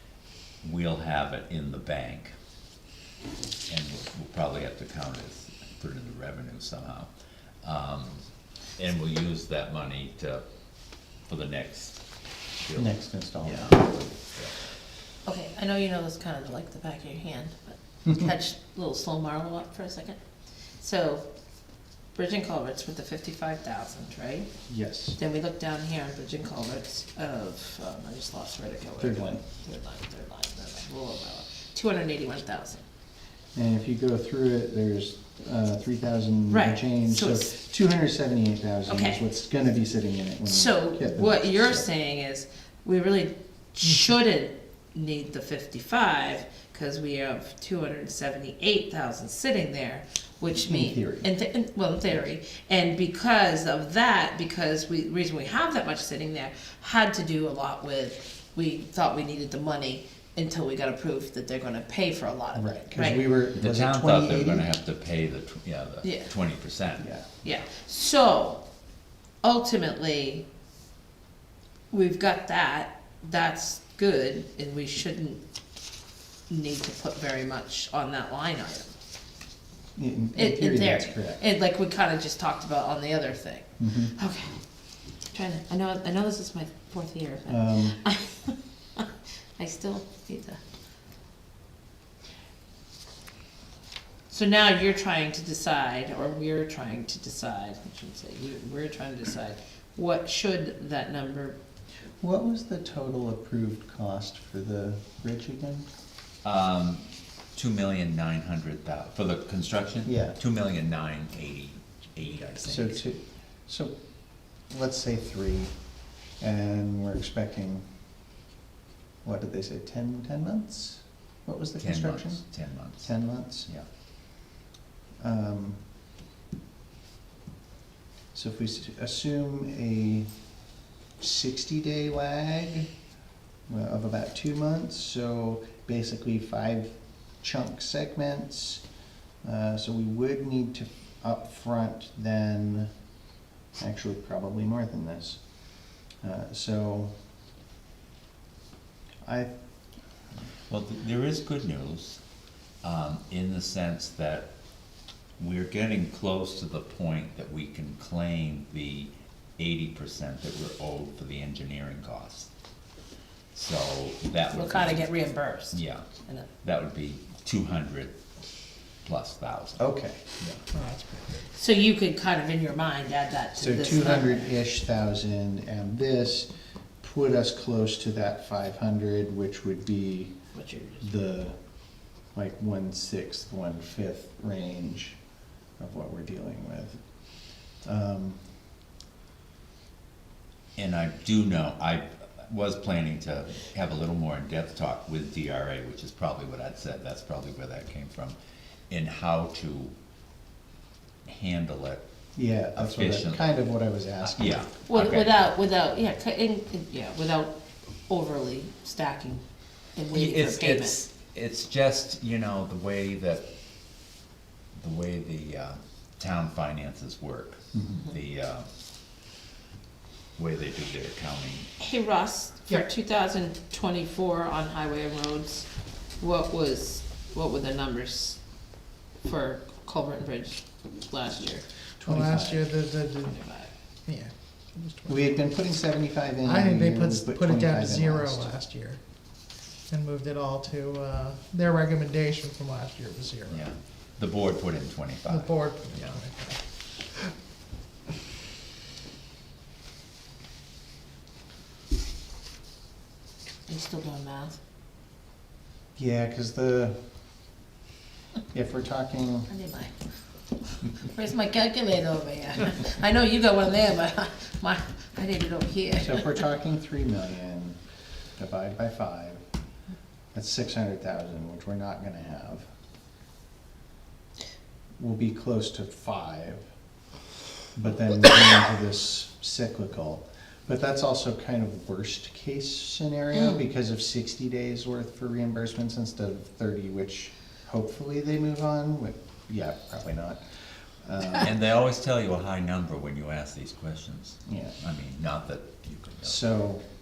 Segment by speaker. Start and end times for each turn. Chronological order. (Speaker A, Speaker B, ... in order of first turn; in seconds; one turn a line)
Speaker A: 0.6-2.3
Speaker A: 3.7-7.1
Speaker A: 7.6-10.4
Speaker A: 11.0-14.5
Speaker B: 12.8-13.8
Speaker C: 15.2-21.2
Speaker C: 22.1-24.5
Speaker B: 24.7-25.2
Speaker C: 25.2-32.8
Speaker B: 29.0-29.4
Speaker B: 33.5-41.9
Speaker C: 36.5-37.5
Speaker C: 38.9-39.2
Speaker C: 40.5-63.3
Speaker B: 50.6-51.3
Speaker B: 62.5-64.7
Speaker A: 63.5-67.1
Speaker C: 66.0-66.3
Speaker B: 67.0-67.3
Speaker C: 67.4-68.6
Speaker C: 69.4-70.5
Speaker C: 71.9-75.4
Speaker C: 76.5-78.9
Speaker B: 80.0-81.4
Speaker C: 80.3-84.6
Speaker B: 83.8-84.1
Speaker C: 85.3-90.6
Speaker B: 87.5-88.0
Speaker C: 94.3-101.6
Speaker B: 102.2-105.9
Speaker A: 106.4-113.0
Speaker B: 110.0-110.4
Speaker B: 112.6-115.8
Speaker B: 116.3-117.9
Speaker B: 119.2-122.5
Speaker A: 121.8-123.8
Speaker B: 123.0-123.7
Speaker B: 125.2-125.8
Speaker B: 128.3-130.3
Speaker B: 131.2-132.9
Speaker B: 133.7-138.8
Speaker B: 139.4-142.9
Speaker B: 143.8-145.4
Speaker B: 146.2-147.1
Speaker B: 149.2-149.5
Speaker A: 150.7-152.2
Speaker A: 152.8-154.5
Speaker A: 155.4-162.5
Speaker A: 163.5-165.1
Speaker C: 164.5-166.5
Speaker A: 165.7-166.1
Speaker A: 166.6-168.2
Speaker A: 169.0-169.9
Speaker B: 169.8-170.2
Speaker A: 170.4-170.7
Speaker D: 170.7-171.5
Speaker C: 171.5-174.5
Speaker B: 173.6-176.5
Speaker B: 177.0-180.4
Speaker C: 180.5-181.1
Speaker B: 181.0-185.2
Speaker B: 185.8-188.5
Speaker A: 190.8-198.4
Speaker A: 198.9-199.9
Speaker A: 201.2-202.1
Speaker B: 202.3-204.7
Speaker A: 202.7-203.5
Speaker A: 204.2-205.5
Speaker C: 204.9-207.6
Speaker C: 208.1-209.4
Speaker C: 209.9-211.0
Speaker A: 210.1-213.5
Speaker A: 214.8-218.7
Speaker B: 217.7-218.1
Speaker A: 220.4-221.7
Speaker C: 221.8-231.7
Speaker B: 232.0-232.7
Speaker D: 232.0-235.2
Speaker C: 233.2-233.7
Speaker B: 235.1-238.5
Speaker D: 236.4-243.7
Speaker A: 243.5-246.2
Speaker D: 245.3-247.3
Speaker C: 253.7-254.6
Speaker B: 256.0-257.1
Speaker B: 258.5-259.5
Speaker C: 259.5-260.0
Speaker C: 260.6-266.4
Speaker B: 266.0-267.8
Speaker B: 268.4-269.4
Speaker B: 270.3-272.6
Speaker B: 275.0-276.6
Speaker B: 277.8-290.4
Speaker B: 291.0-291.5
Speaker A: 291.4-296.4
Speaker B: 294.4-294.8
Speaker B: 296.2-296.8